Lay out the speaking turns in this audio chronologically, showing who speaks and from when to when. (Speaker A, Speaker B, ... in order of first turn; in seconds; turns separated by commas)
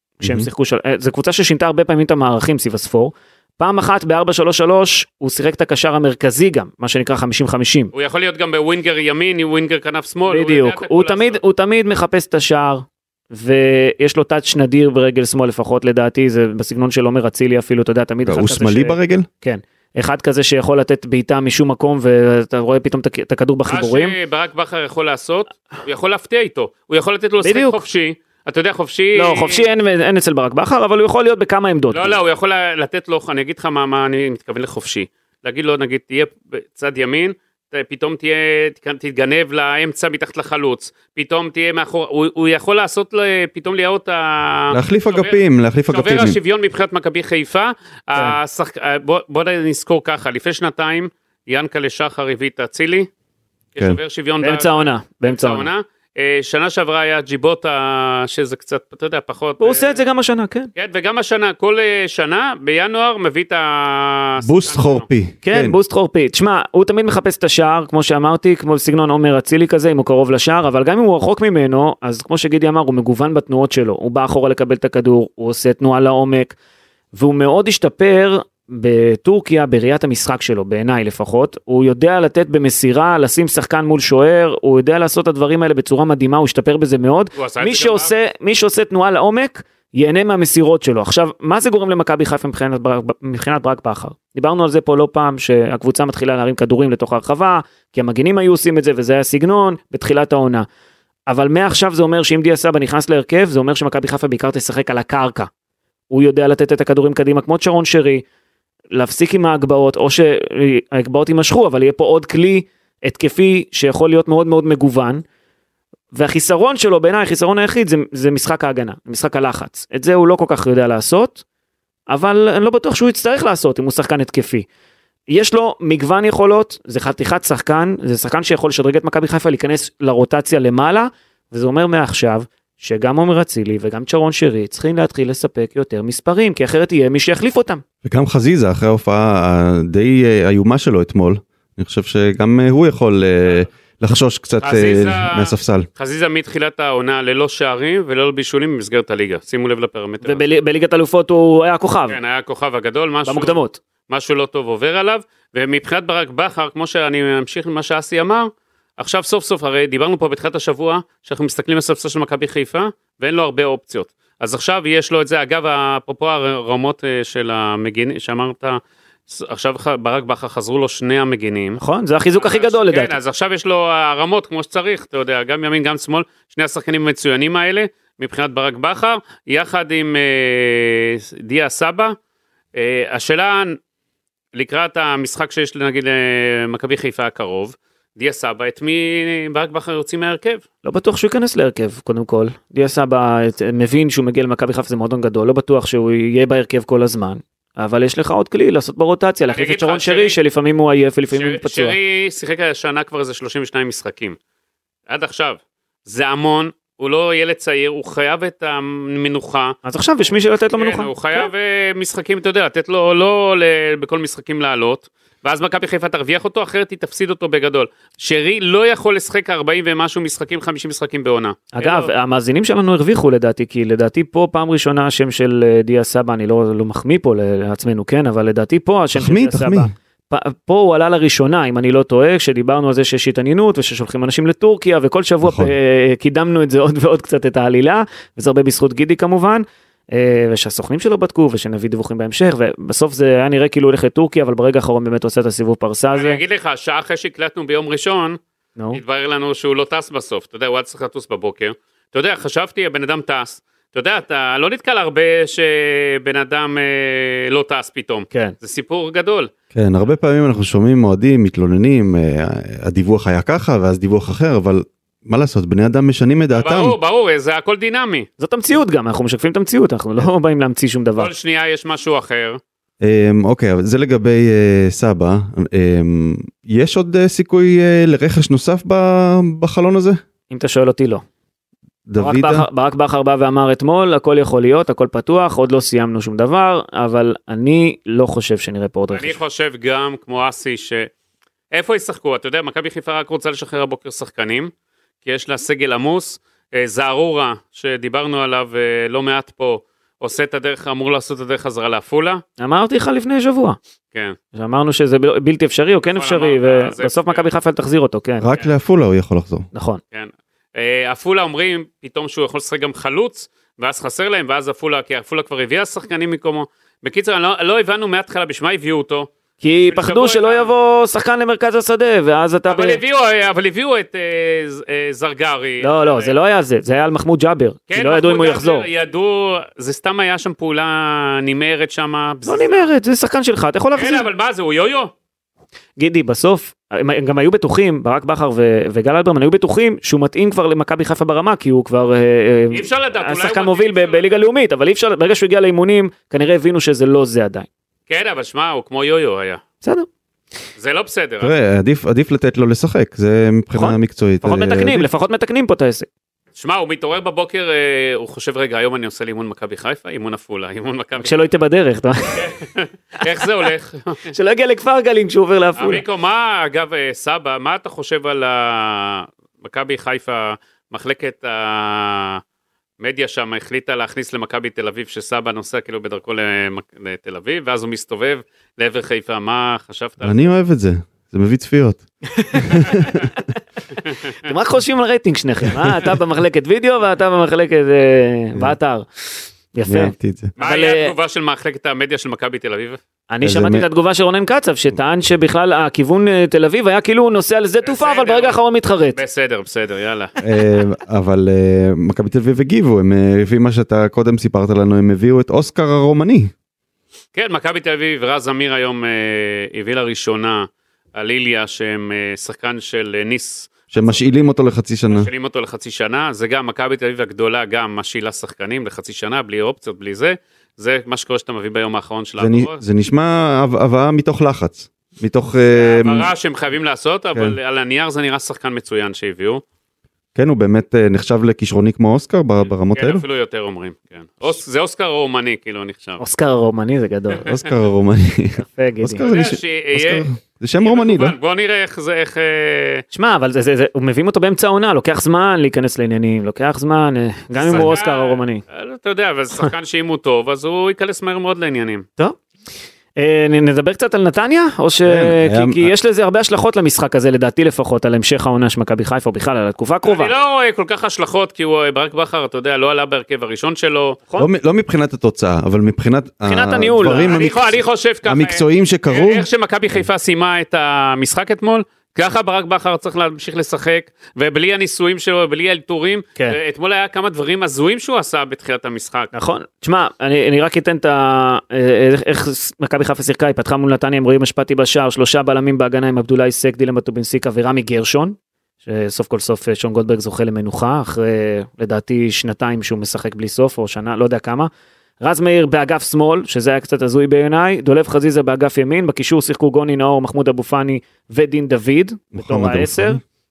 Speaker A: 0.2-7.9, Speaker B: 0.2-0.5, Speaker C: 7.9-11.4, Speaker A: 10.3-24.1, Speaker B: 18.2-19.3, Speaker C: 23.7-29.6, Speaker A: 27.4-27.8, Speaker A: 29.1-32.2, Speaker C: 31.9-45.4, Speaker B: 44.7-46.4, Speaker C: 45.9-53.1, Speaker C: 53.8-60.0, Speaker A: 54.4-55.7, Speaker A: 59.6-60.7, Speaker C: 60.8-65.1, Speaker B: 64.4-65.8, Speaker A: 65.4-76.5, Speaker A: 77.1-100.7, Speaker C: 87.3-88.1, Speaker A: 101.3-105.5, Speaker A: 106.1-108.2, Speaker A: 108.9-115.2, Speaker A: 116.1-121.4, Speaker A: 122.1-124.7, Speaker A: 125.3-137.8, Speaker B: 138.0-145.9, Speaker C: 144.6-150.4, Speaker A: 150.2-152.2, Speaker C: 152.1-153.6, Speaker A: 153.3-153.8, Speaker C: 154.1-171.8, Speaker A: 171.8-173.2, Speaker C: 172.4-182.2, Speaker C: 182.8-183.8, Speaker C: 184.5-190.6, Speaker A: 190.8-202.0, Speaker C: 199.5-200.4, Speaker C: 201.3-204.4, Speaker C: 205.1-209.8, Speaker A: 209.8-211.5, Speaker C: 210.8-222.1, Speaker A: 221.7-246.4, Speaker B: 229.2-229.9, Speaker B: 235.4-235.7, Speaker C: 246.1-248.4, Speaker C: 248.9-259.5, Speaker B: 259.7-267.0, Speaker C: 266.5-268.3, Speaker A: 268.4-271.3, Speaker C: 271.2-272.6, Speaker B: 273.0-280.2, Speaker A: 280.5-281.2, Speaker B: 282.1-282.7, Speaker A: 282.2-289.4, Speaker C: 289.1-291.1, Speaker C: 291.7-294.7, Speaker C: 295.2-302.4, Speaker A: 302.6-303.8, Speaker A: 304.5-308.5, Speaker C: 306.1-307.5, Speaker B: 308.4-309.7, Speaker A: 309.7-310.0, Speaker C: 310.1-319.3, Speaker A: 319.6-323.0, Speaker C: 319.9-320.7, Speaker C: 322.7-326.3, Speaker A: 325.8-328.9, Speaker C: 327.9-332.9, Speaker A: 332.5-334.3, Speaker C: 334.0-335.1, Speaker A: 336.0-347.7, Speaker C: 342.7-344.5, Speaker C: 348.1-349.6, Speaker A: 349.8-350.1, Speaker C: 350.8-351.5, Speaker B: 351.4-355.1, Speaker A: 353.8-356.1, Speaker C: 356.6-361.5, Speaker A: 361.2-362.5, Speaker C: 362.3-364.3, Speaker A: 364.3-366.0, Speaker C: 365.8-372.4, Speaker C: 373.0-380.5, Speaker B: 380.2-383.2, Speaker A: 382.4-383.4, Speaker A: 384.4-389.1, Speaker A: 389.7-391.1, Speaker B: 389.9-390.5, Speaker C: 390.6-393.0, Speaker A: 393.3-399.2, Speaker B: 393.4-393.9, Speaker C: 397.8-398.6, Speaker C: 399.1-400.3, Speaker B: 400.4-406.5, Speaker C: 407.3-414.3, Speaker B: 413.9-415.3, Speaker C: 415.1-422.8, Speaker B: 422.4-426.3, Speaker C: 425.7-429.6, Speaker B: 430.4-433.2, Speaker C: 432.9-436.2, Speaker A: 436.2-437.5, Speaker B: 437.4-441.4, Speaker A: 438.6-439.3, Speaker C: 439.2-440.3, Speaker C: 440.8-443.0, Speaker A: 443.1-448.6, Speaker C: 447.6-452.1, Speaker A: 453.2-460.3, Speaker B: 455.0-455.9, Speaker C: 460.1-464.2, Speaker B: 464.4-469.5, Speaker A: 466.4-467.4, Speaker C: 467.2-479.3, Speaker A: 479.3-494.7, Speaker A: 495.2-503.2, Speaker B: 502.4-503.2